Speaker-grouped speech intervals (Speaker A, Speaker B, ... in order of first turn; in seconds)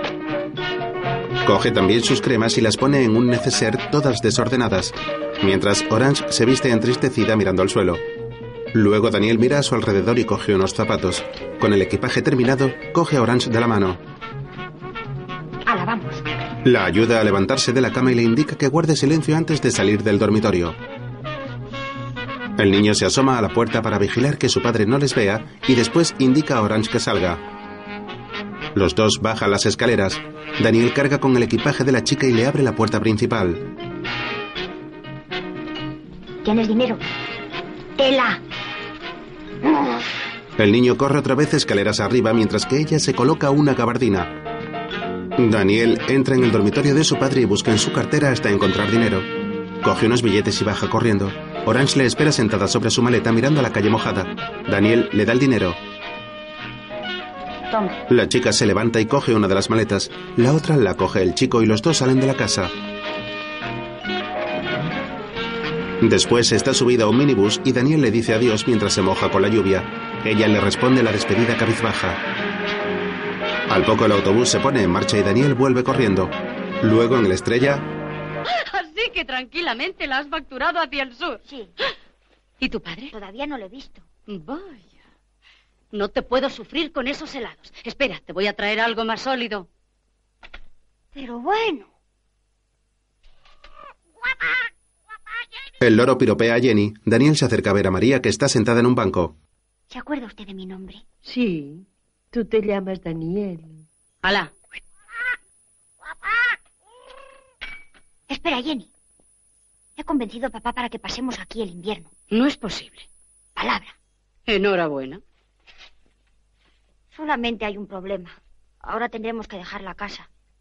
Speaker A: 1.4-8.0, 8.7-14.0, 16.6-20.8, 22.6-27.4, 28.7-33.7, 40.6-44.4, 45.4-49.3, 49.8-55.8, 58.1-62.7, 66.0-72.2, 73.7-77.9, 95.8-99.3
Speaker B: 15.7-16.2, 36.4-37.0, 38.0-38.4, 57.7-58.0, 83.1-84.0, 91.1-91.9, 99.9-101.0, 108.3-108.9, 110.0-112.1, 113.6-114.0, 117.1-120.3
Speaker C: 78.5-81.4, 82.6-83.1, 84.3-84.9, 85.9-89.7, 104.2-104.5, 112.3-113.1, 114.5-115.2
Speaker D: 101.2-103.8